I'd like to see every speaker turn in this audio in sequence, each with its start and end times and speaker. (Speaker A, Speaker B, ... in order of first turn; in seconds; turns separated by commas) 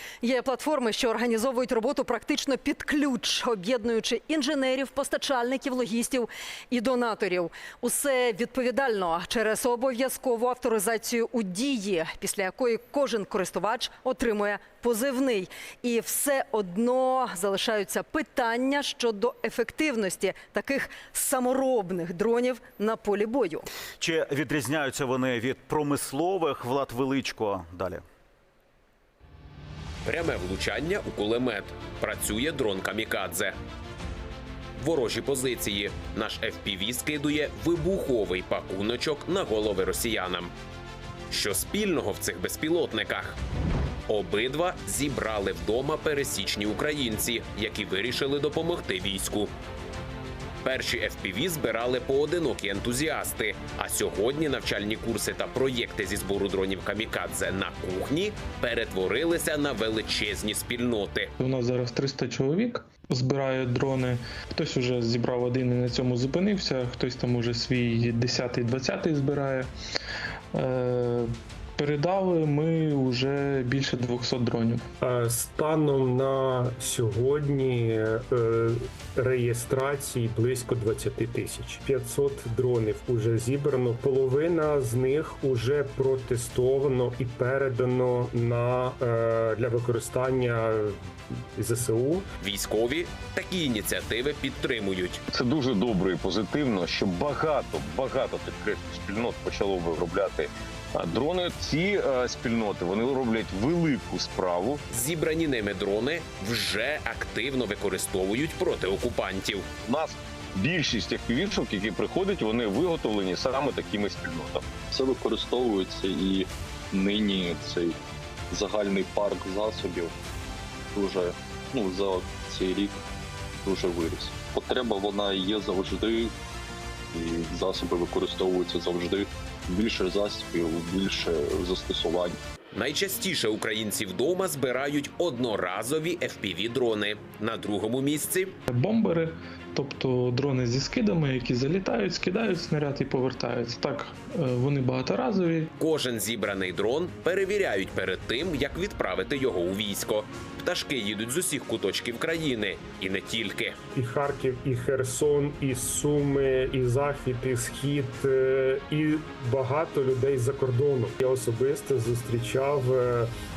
Speaker A: 0.2-23.7, Speaker B: 24.0-28.0, Speaker C: 30.1-33.5, Speaker C: 34.8-40.5, Speaker C: 41.3-43.4, Speaker C: 44.1-49.5, Speaker C: 50.6-61.3, Speaker D: 61.4-69.7, Speaker D: 70.5-74.8, Speaker E: 75.0-92.3, Speaker C: 92.4-95.2, Speaker F: 95.3-104.8, Speaker C: 104.9-109.7, Speaker F: 109.8-114.7, Speaker G: 114.9-118.0, Speaker G: 118.5-120.1, Speaker G: 120.9-123.0, Speaker G: 123.6-126.3, Speaker G: 127.1-132.4, Speaker C: 132.7-138.6, Speaker D: 138.7-145.7, Speaker C: 145.8-153.8, Speaker E: 153.9-163.3